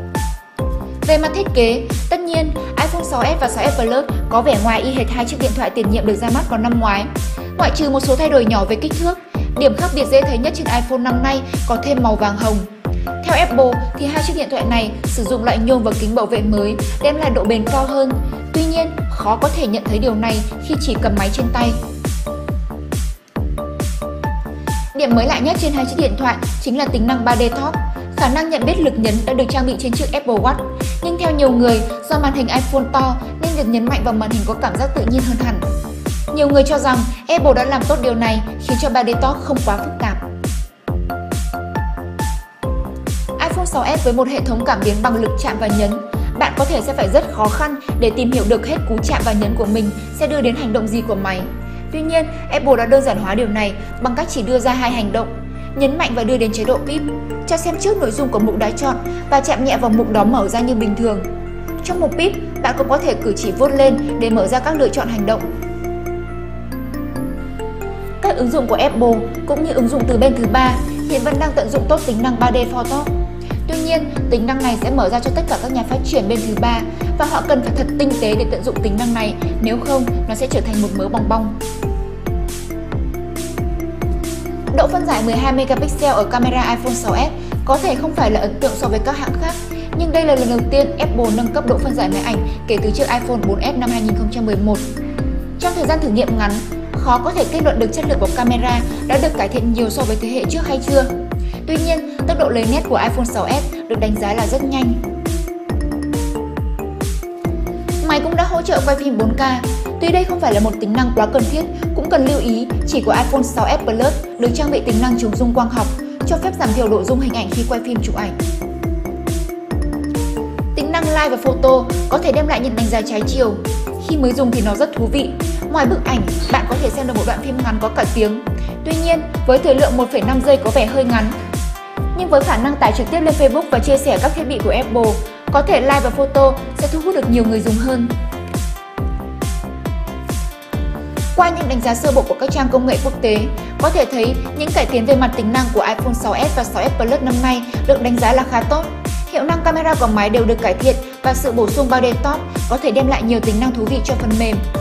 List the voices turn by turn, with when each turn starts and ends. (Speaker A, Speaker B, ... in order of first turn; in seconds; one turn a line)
Speaker A: 1.0-12.7
Speaker A: 13.2-21.8
Speaker A: 24.9-35.6
Speaker A: 36.3-40.2
Speaker A: 43.4-61.3
Speaker A: 61.8-65.5
Speaker A: 68.2-73.1
Speaker A: 73.7-81.6
Speaker A: 84.7-94.8
Speaker A: 95.6-101.1
Speaker A: 101.7-105.0
Speaker A: 108.0-118.4
Speaker A: 120.8-131.4
Speaker A: 132.1-138.1
Speaker A: 141.3-154.6